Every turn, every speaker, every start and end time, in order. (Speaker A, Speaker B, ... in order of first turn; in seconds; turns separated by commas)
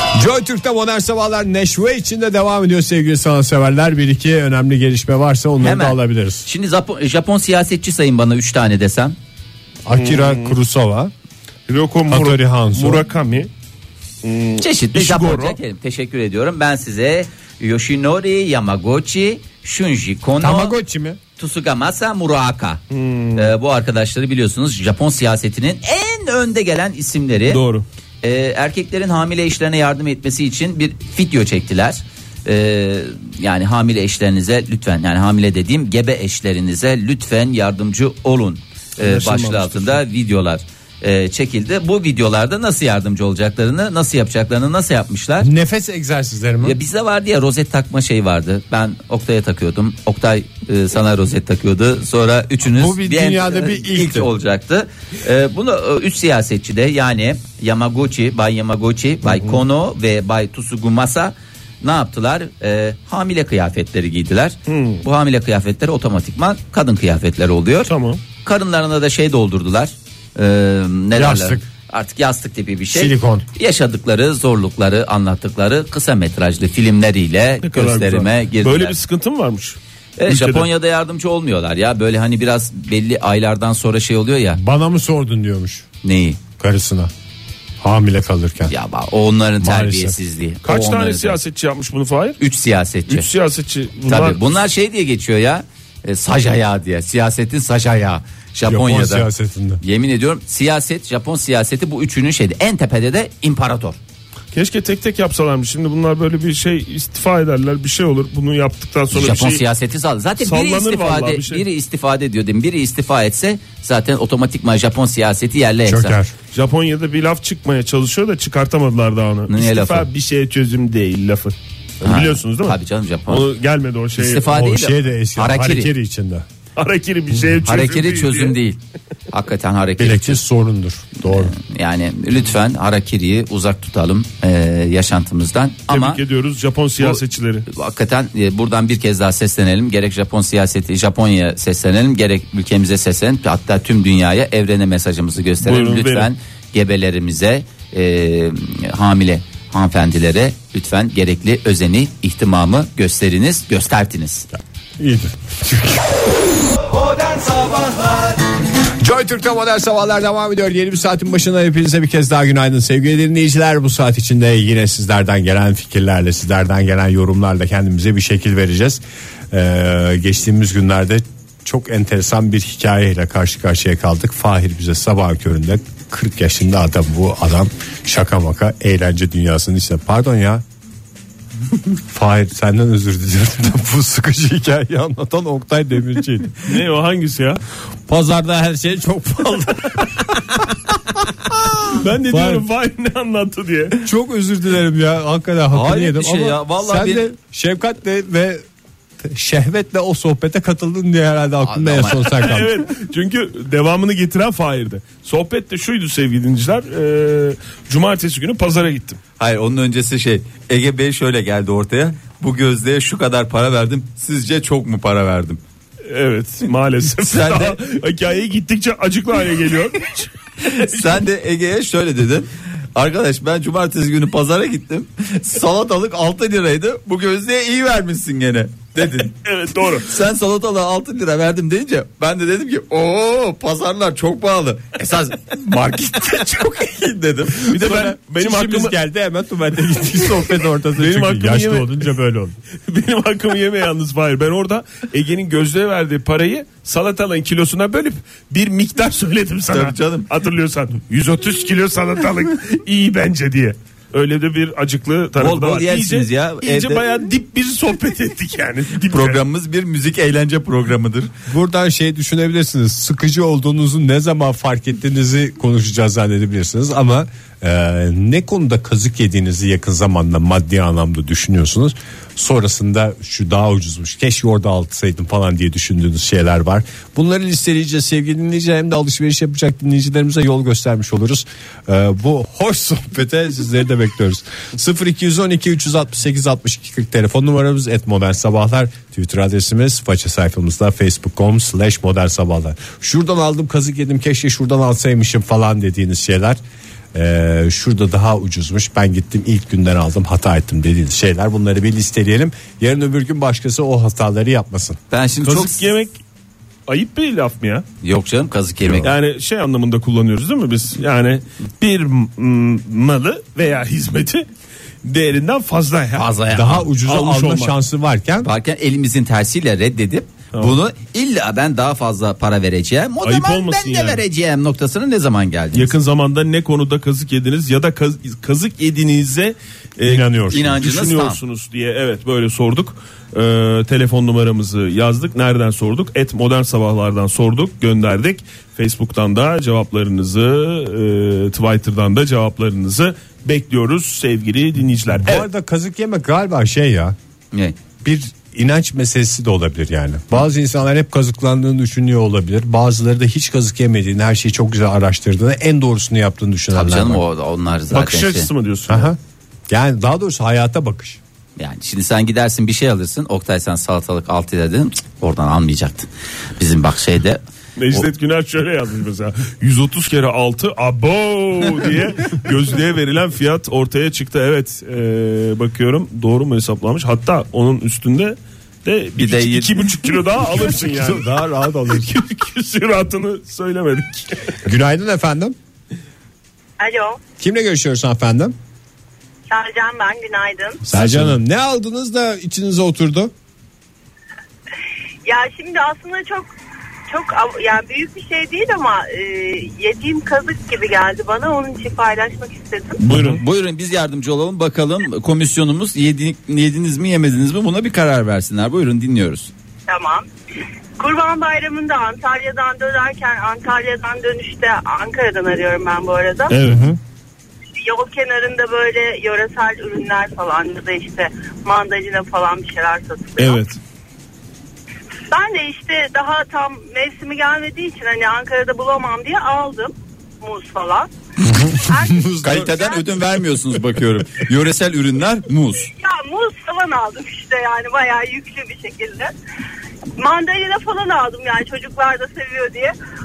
Speaker A: 0.1-6.4, Speaker B: 5.6-9.2, Speaker A: 9.8-11.1, Speaker C: 9.9-10.5, Speaker C: 11.7-13.5, Speaker A: 12.1-13.0, Speaker C: 14.2-15.6, Speaker B: 14.6-20.8, Speaker A: 20.4-21.2, Speaker B: 21.4-22.8, Speaker C: 22.9-23.5, Speaker B: 23.3-27.6, Speaker C: 27.5-27.8, Speaker B: 28.2-45.5, Speaker A: 39.0-40.0, Speaker A: 45.4-46.8, Speaker B: 46.6-67.9, Speaker A: 52.6-54.3, Speaker C: 59.3-59.6, Speaker C: 64.7-65.0, Speaker C: 67.8-68.2, Speaker B: 68.4-79.0, Speaker A: 71.1-71.7, Speaker A: 72.9-73.4, Speaker C: 77.6-80.7, Speaker B: 80.2-84.6, Speaker A: 84.6-85.8, Speaker B: 86.0-86.4, Speaker A: 86.6-87.1, Speaker A: 87.8-88.7, Speaker B: 88.7-91.4, Speaker A: 89.6-90.2, Speaker C: 90.6-92.4, Speaker B: 92.4-93.3, Speaker C: 93.1-94.4, Speaker B: 94.0-99.3, Speaker A: 98.6-99.8, Speaker B: 99.8-104.0, Speaker C: 104.5-109.6, Speaker B: 109.1-116.2, Speaker C: 110.4-111.6, Speaker A: 115.8-116.3, Speaker C: 116.5-122.8, Speaker B: 119.5-120.1, Speaker B: 122.0-123.5, Speaker C: 123.3-124.5, Speaker B: 124.2-125.9, Speaker A: 124.5-126.5, Speaker C: 126.8-128.6, Speaker B: 127.6-128.8, Speaker B: 129.3-130.4, Speaker A: 130.0-131.6, Speaker B: 131.2-136.2, Speaker C: 135.9-137.7, Speaker B: 137.0-154.5, Speaker C: 145.6-146.3, Speaker A: 155.0-156.3, Speaker A: 156.9-158.4, Speaker A: 159.0-180.6, Speaker A: 182.0-186.7, Speaker C: 186.6-187.6, Speaker A: 188.1-192.6, Speaker C: 191.9-194.0, Speaker A: 194.0-198.6, Speaker B: 195.7-197.2, Speaker A: 199.2-202.9, Speaker B: 201.6-202.4, Speaker C: 202.4-209.2, Speaker B: 209.4-215.6, Speaker C: 216.1-221.2, Speaker B: 217.2-217.8, Speaker B: 220.6-229.3, Speaker C: 229.4-230.1, Speaker B: 230.0-238.1, Speaker C: 237.6-239.0, Speaker A: 237.8-242.6, Speaker C: 241.0-242.1, Speaker C: 242.9-259.4, Speaker B: 249.7-250.3, Speaker B: 255.4-257.1, Speaker B: 259.0-261.3, Speaker A: 261.5-296.6, Speaker A: 297.1-305.0, Speaker B: 305.1-305.8, Speaker C: 305.4-306.2, Speaker C: 306.9-307.8, Speaker B: 308.0-309.1, Speaker C: 309.0-314.5, Speaker C: 315.0-316.3, Speaker B: 316.1-316.9, Speaker A: 316.5-318.5, Speaker C: 317.0-317.8, Speaker B: 318.4-325.9, Speaker C: 323.2-324.2, Speaker C: 325.7-345.4, Speaker A: 330.0-330.7, Speaker B: 330.5-331.4, Speaker A: 345.2-347.1, Speaker A: 348.0-357.2, Speaker B: 356.7-358.5, Speaker C: 357.9-359.1, Speaker A: 358.9-359.2, Speaker A: 359.7-361.2, Speaker B: 361.6-368.1, Speaker C: 367.8-381.3, Speaker B: 379.2-379.7, Speaker A: 380.8-382.1, Speaker C: 381.9-384.5, Speaker A: 384.6-385.6, Speaker D: 386.8-387.2, Speaker A: 387.4-388.5, Speaker D: 389.5-390.8, Speaker C: 390.8-391.3, Speaker A: 390.9-393.3, Speaker D: 395.2-396.5, Speaker D: 397.1-403.0, Speaker C: 403.0-403.4, Speaker B: 403.1-409.5, Speaker D: 409.9-410.2, Speaker D: 411.0-416.5, Speaker C: 416.5-416.9, Speaker A: 416.6-417.0, Speaker D: 417.8-423.6, Speaker C: 423.4-423.8, Speaker D: 425.3-431.1, Speaker A: 431.5-432.6, Speaker D: 431.7-433.2, Speaker B: 432.4-435.9, Speaker D: 435.9-439.3, Speaker D: 440.2-442.9